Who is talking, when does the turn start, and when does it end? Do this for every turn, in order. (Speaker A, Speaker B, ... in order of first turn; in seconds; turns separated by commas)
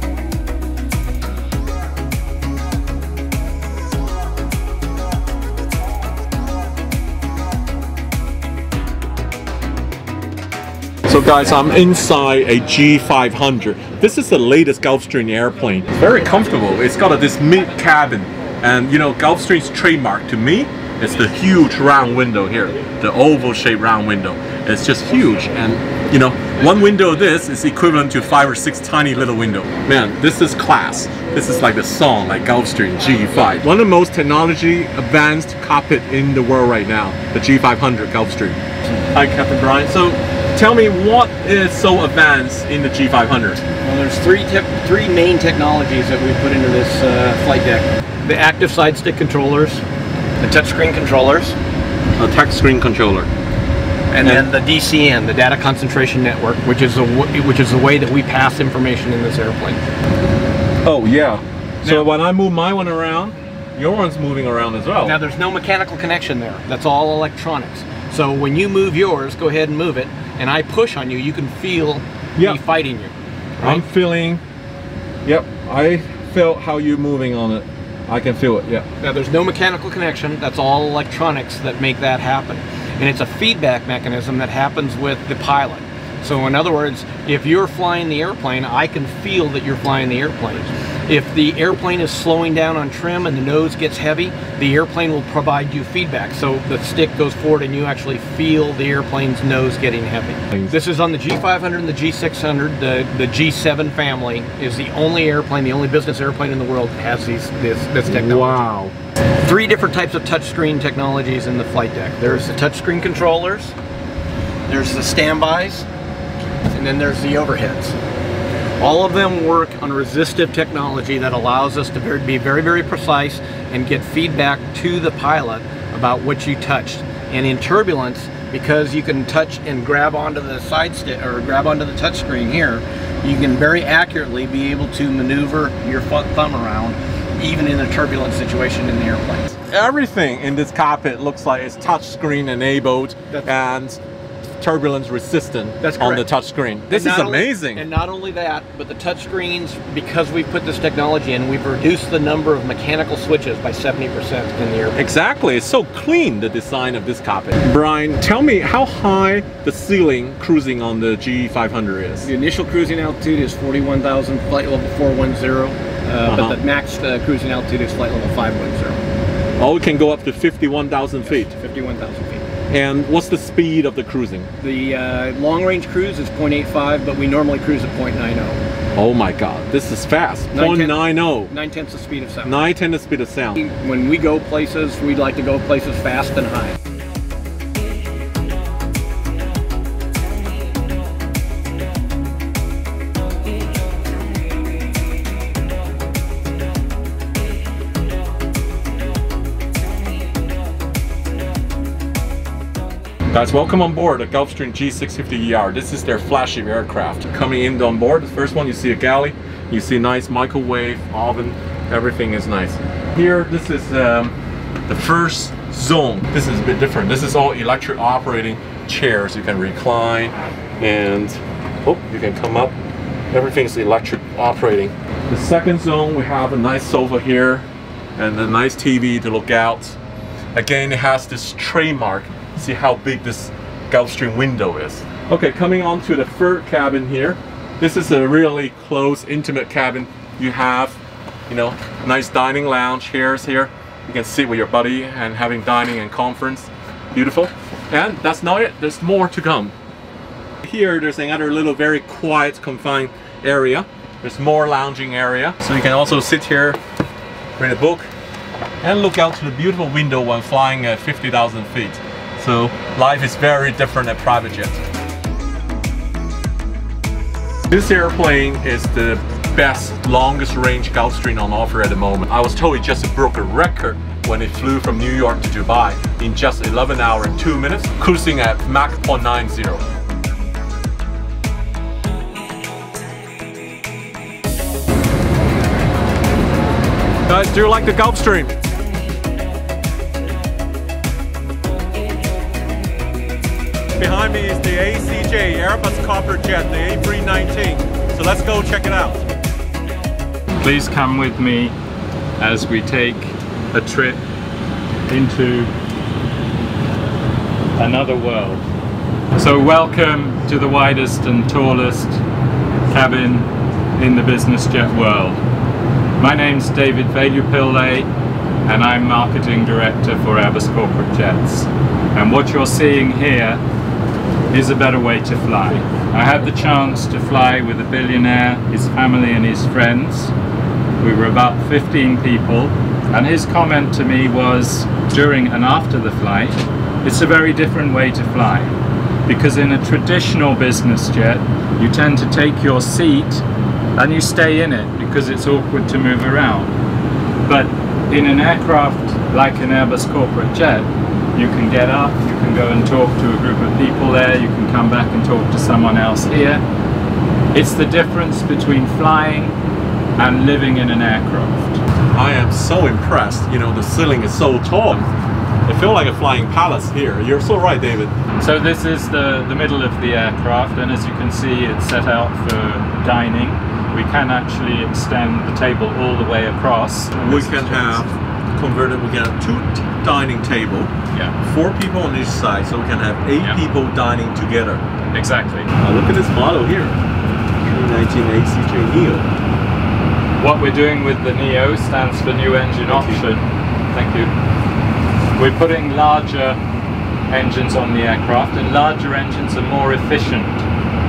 Speaker A: 11.1-38.6, Speaker A: 39.1-43.6, Speaker B: 43.8-49.8, Speaker B: 50.4-51.6, Speaker A: 52.2-53.3, Speaker B: 54.1-59.8, Speaker A: 54.2-54.5, Speaker A: 60.8-65.2, Speaker B: 61.8-62.1, Speaker B: 65.0-73.8, Speaker A: 72.4-72.6, Speaker A: 73.6-74.4, Speaker A: 75.2-78.8, Speaker B: 79.0-108.7, Speaker A: 100.5-100.8, Speaker A: 108.0-108.9, Speaker B: 109.4-113.7, Speaker B: 114.7-115.9, Speaker B: 116.7-118.0, Speaker B: 118.8-139.6, Speaker A: 139.7-144.0, Speaker B: 143.3-143.6, Speaker A: 144.6-147.8, Speaker B: 145.8-146.2, Speaker B: 146.9-155.0, Speaker A: 154.9-162.3, Speaker B: 162.2-169.0, Speaker A: 166.2-166.6, Speaker A: 169.6-171.5, Speaker B: 171.2-172.5, Speaker A: 172.7-174.5, Speaker B: 174.6-178.6, Speaker A: 178.9-181.5, Speaker B: 180.5-182.7, Speaker A: 182.4-183.6, Speaker B: 183.5-186.8, Speaker A: 203.3-214.3, Speaker A: 214.9-222.7, Speaker A: 223.3-230.0, Speaker A: 230.5-249.7, Speaker A: 250.6-256.8, Speaker A: 257.6-258.1, Speaker A: 258.8-264.8, Speaker A: 267.7-279.8, Speaker A: 287.3-288.5, Speaker A: 294.0-299.2, Speaker C: 300.6-301.7, Speaker C: 302.4-304.2, Speaker C: 305.1-305.7, Speaker C: 307.8-308.6, Speaker C: 309.3-312.2, Speaker C: 312.9-315.4, Speaker C: 316.2-318.1, Speaker C: 318.6-323.6, Speaker C: 324.5-330.3, Speaker C: 331.0-338.8, Speaker C: 339.3-343.4, Speaker C: 344.0-346.7, Speaker C: 347.4-356.6, Speaker C: 357.5-359.6, Speaker C: 360.2-361.8, Speaker A: 362.1-365.1, Speaker A: 365.6-368.1, Speaker C: 368.4-378.1, Speaker A: 377.2-380.9, Speaker A: 381.4-384.8, Speaker C: 385.1-385.7, Speaker A: 385.8-387.0, Speaker A: 387.6-389.3, Speaker C: 390.4-394.3, Speaker A: 392.9-393.2, Speaker C: 395.4-396.6, Speaker C: 397.3-400.6